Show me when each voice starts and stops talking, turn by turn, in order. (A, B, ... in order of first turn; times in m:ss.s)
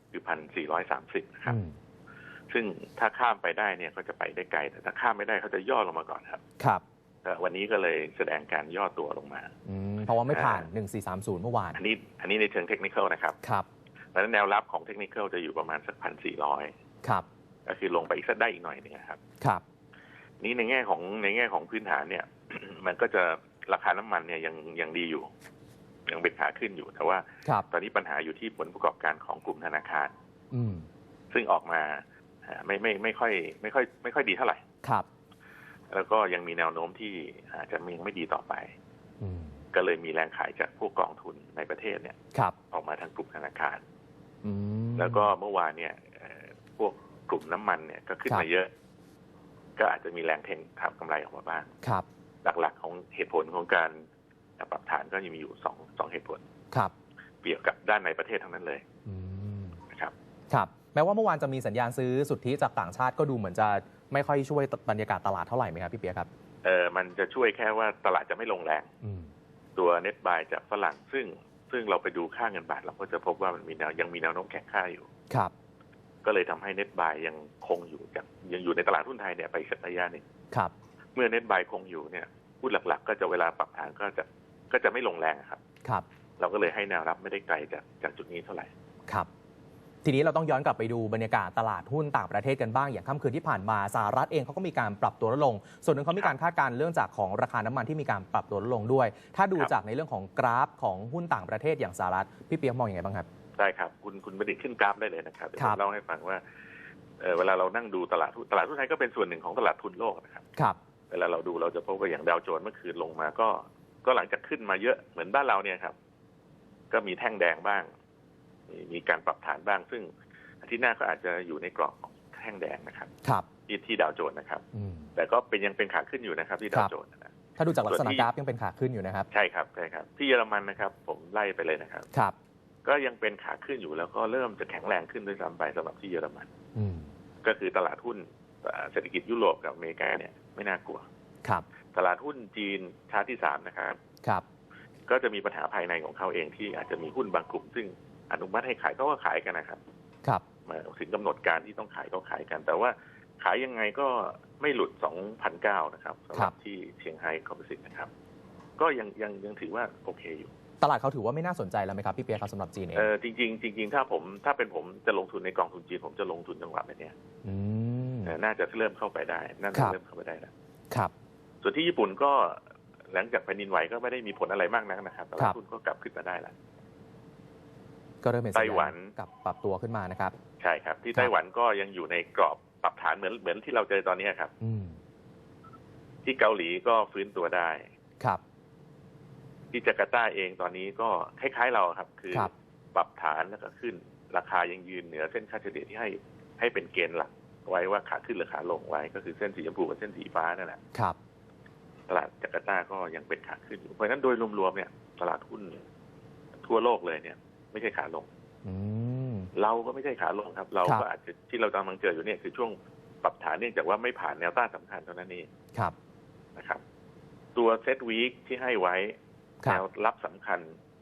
0:00.1-0:01.6 A
0:01.4-0:01.8 B
0:02.5-0:06.4 A
0:07.2-0:09.5 A
0:09.6-0:11.8 B
0:10.3-0:10.7 A
0:11.7-0:13.4 A
0:14.1-0:16.7 A
0:17.6-0:19.2 A
0:20.4-0:25.3 A
0:26.1-0:30.1 A
0:30.5-0:30.9 B
0:31.3-0:34.6 A
0:35.9-0:38.7 A
0:39.2-0:39.6 B
0:39.7-0:42.2 A
0:42.7-0:43.8 A
0:44.4-0:45.3 B
0:45.0-0:48.7 A
0:49.8-0:51.7 A
0:52.4-0:54.0 A
0:54.6-0:56.4 A
0:57.4-0:58.8 A
0:59.0-0:59.8 B
1:00.5-1:06.3 B
1:06.6-1:08.9 A
1:09.0-1:09.3 B
1:09.8-1:15.1 A
1:16.2-1:20.2 A
1:21.1-1:25.6 A
1:26.4-1:28.7 A
1:30.0-1:43.2 B
1:43.6-1:46.4 A
1:47.2-1:50.4 A
1:51.1-1:55.9 A
1:56.9-1:57.9 A
1:58.7-2:00.1 A
2:00.6-2:03.1 A
2:03.7-2:04.6 A
2:04.7-2:05.1 B
2:05.1-2:07.3 A
2:07.6-2:09.2 B
2:07.8-2:08.3 A
2:09.3-2:12.1 A
2:12.8-2:16.5 A
2:16.8-2:17.1 B
2:17.4-2:21.0 A
2:21.9-2:24.0 A
2:25.1-2:29.8 A
2:30.6-2:38.1 A
2:38.8-2:40.5 A
2:40.8-2:43.1 B
2:42.9-2:47.1 A
2:47.4-2:48.3 B
2:48.2-2:50.5 A
2:51.6-2:56.5 A
2:58.2-3:00.4 B
2:58.5-2:59.1 A
3:00.6-3:04.5 A
3:04.6-3:05.0 B
3:06.2-3:07.9 A
3:09.7-3:20.8 A
3:22.1-3:25.8 A
3:26.6-3:28.3 A
3:28.6-3:29.5 B
3:29.5-3:35.5 A
3:36.6-3:36.8 A
3:37.5-3:40.7 A